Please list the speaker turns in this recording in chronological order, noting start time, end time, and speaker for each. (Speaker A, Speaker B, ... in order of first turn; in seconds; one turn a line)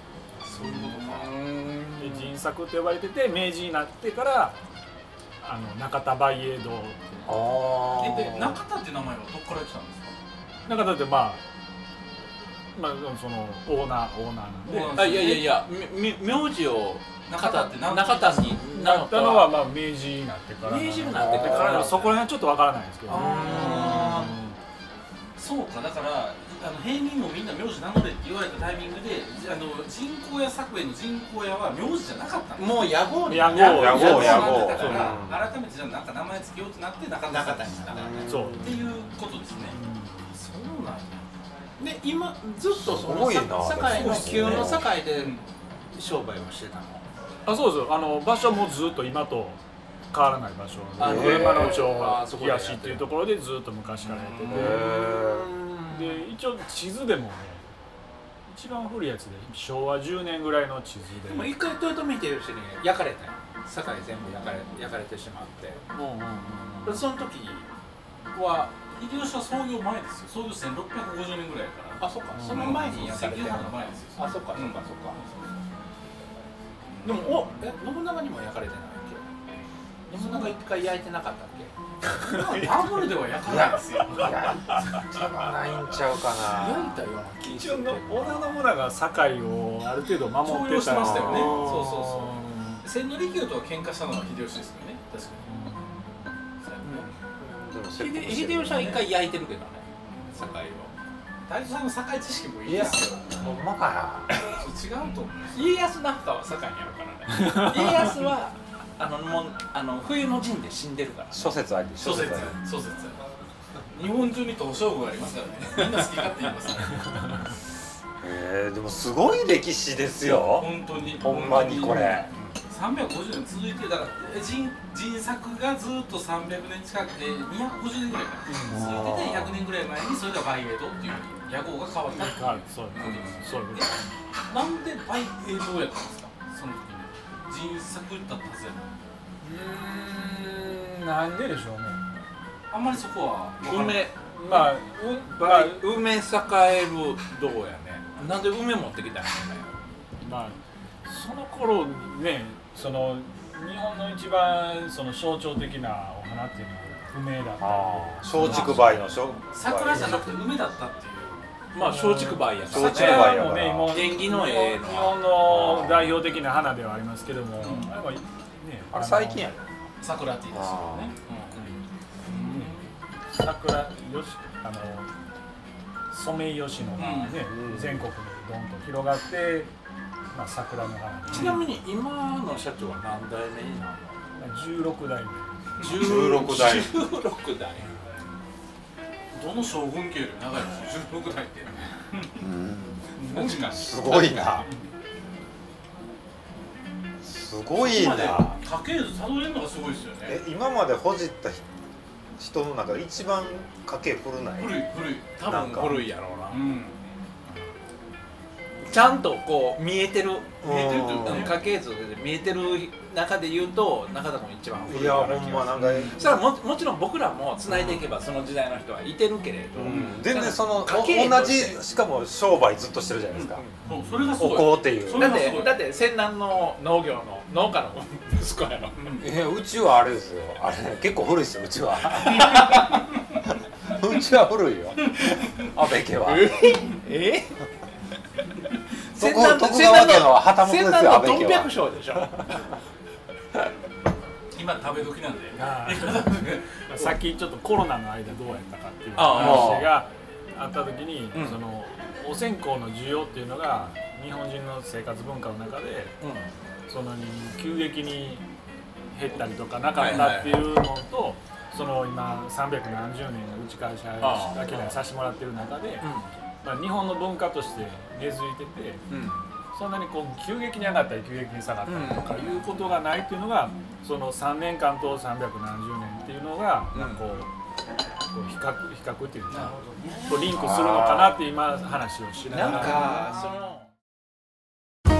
Speaker A: 0.4-1.4
Speaker B: 0.6-2.3
Speaker C: 2.0-4.6
Speaker C: 5.4-7.4
Speaker D: 7.3-8.6
Speaker A: 7.9-10.1
Speaker C: 10.7-11.4
Speaker C: 12.8-15.1
Speaker A: 14.7-15.6
Speaker B: 14.9-19.6
Speaker A: 17.3-18.6
Speaker C: 18.7-24.6
Speaker B: 20.6-22.2
Speaker D: 21.1-21.9
Speaker A: 23.1-24.2
Speaker D: 23.1-24.3
Speaker B: 23.1-24.2
Speaker A: 25.4-33.0
Speaker B: 32.6-35.2
Speaker C: 33.3-35.1
Speaker A: 33.5-39.8
Speaker D: 33.5-35.5
Speaker B: 37.3-38.4
Speaker D: 37.9-38.6
Speaker C: 38.3-38.8
Speaker C: 39.7-40.2
Speaker A: 40.3-41.2
Speaker B: 41.8-45.4
Speaker D: 42.7-44.9
Speaker A: 43.9-45.4
Speaker B: 45.9-47.0
Speaker C: 47.5-49.6
Speaker C: 50.1-55.0
Speaker B: 51.0-53.2
Speaker D: 51.0-51.8
Speaker B: 54.0-56.2
Speaker D: 54.5-55.5
Speaker C: 55.9-57.6
Speaker C: 58.5-61.5
Speaker B: 61.3-65.8
Speaker C: 65.9-67.0
Speaker B: 66.8-67.7
Speaker B: 68.3-68.7
Speaker A: 68.8-75.4
Speaker B: 72.0-75.2
Speaker C: 72.3-72.7
Speaker A: 76.9-77.4
Speaker B: 77.0-79.3
Speaker B: 80.1-81.7
Speaker A: 80.1-80.6
Speaker A: 82.3-85.0
Speaker C: 82.3-82.8
Speaker D: 83.4-87.0
Speaker A: 86.4-87.4
Speaker B: 86.8-88.5
Speaker C: 87.5-91.8
Speaker A: 90.4-95.6
Speaker D: 90.9-91.9
Speaker B: 91.5-92.3
Speaker C: 95.5-96.1
Speaker A: 96.6-97.1
Speaker D: 97.4-99.0
Speaker B: 98.0-100.9
Speaker A: 101.5-103.6
Speaker D: 102.7-104.3
Speaker A: 104.5-105.5
Speaker B: 105.5-111.5
Speaker C: 107.4-108.1
Speaker D: 111.3-112.6
Speaker A: 112.0-113.2
Speaker A: 113.9-117.4
Speaker D: 118.2-122.3
Speaker A: 120.2-133.9
Speaker C: 128.5-128.9
Speaker D: 128.7-129.5
Speaker C: 132.1-134.1
Speaker B: 132.9-133.4
Speaker A: 134.5-138.9
Speaker C: 139.4-142.0
Speaker A: 142.7-144.1
Speaker B: 143.6-149.8
Speaker C: 144.2-145.9
Speaker C: 150.2-159.2
Speaker D: 157.6-160.3
Speaker A: 158.4-158.8
Speaker A: 159.5-161.5
Speaker B: 161.7-163.3
Speaker C: 161.8-169.6
Speaker D: 162.7-164.0
Speaker B: 163.9-165.7
Speaker D: 165.4-166.1
Speaker A: 167.6-168.0
Speaker D: 168.9-169.6
Speaker A: 170.0-171.7
Speaker D: 170.5-171.1
Speaker A: 172.3-172.9
Speaker C: 173.3-175.1
Speaker C: 176.1-179.7
Speaker A: 177.0-177.4
Speaker D: 177.4-178.1
Speaker C: 180.3-181.7
Speaker A: 181.3-181.6
Speaker B: 181.3-184.2
Speaker C: 184.4-185.6
Speaker B: 185.8-187.9
Speaker D: 185.8-186.9
Speaker A: 189.3-192.4
Speaker D: 192.4-194.7
Speaker A: 193.2-194.9
Speaker D: 197.2-198.6
Speaker A: 197.8-200.4
Speaker D: 200.2-201.7
Speaker D: 202.4-204.8
Speaker A: 204.6-205.4
Speaker B: 205.4-206.7
Speaker D: 205.4-206.0
Speaker A: 206.5-207.0
Speaker B: 208.8-221.8
Speaker D: 210.6-211.5
Speaker A: 211.0-211.6
Speaker D: 214.8-216.3
Speaker A: 215.9-216.2
Speaker D: 217.7-218.1
Speaker D: 219.8-223.7
Speaker A: 219.9-220.2
Speaker A: 223.3-225.8
Speaker D: 224.4-225.3
Speaker B: 225.1-229.0
Speaker A: 228.9-229.3
Speaker D: 229.2-232.6
Speaker B: 232.2-233.0
Speaker D: 233.9-236.6
Speaker B: 236.2-237.6
Speaker B: 239.1-242.6
Speaker D: 239.2-241.7
Speaker A: 244.5-247.2
Speaker C: 245.6-256.1
Speaker B: 249.2-250.0
Speaker D: 249.3-249.9
Speaker A: 249.4-249.8
Speaker B: 256.2-256.5
Speaker C: 256.9-258.5
Speaker C: 259.1-266.1
Speaker B: 259.9-260.7
Speaker B: 264.2-265.0
Speaker B: 266.0-266.3
Speaker C: 266.6-269.0
Speaker B: 269.1-269.4
Speaker C: 269.7-277.5
Speaker B: 271.9-272.7
Speaker B: 276.9-277.2
Speaker C: 278.3-279.8
Speaker A: 279.5-280.6
Speaker C: 280.3-283.0
Speaker D: 280.5-281.4
Speaker B: 282.5-283.9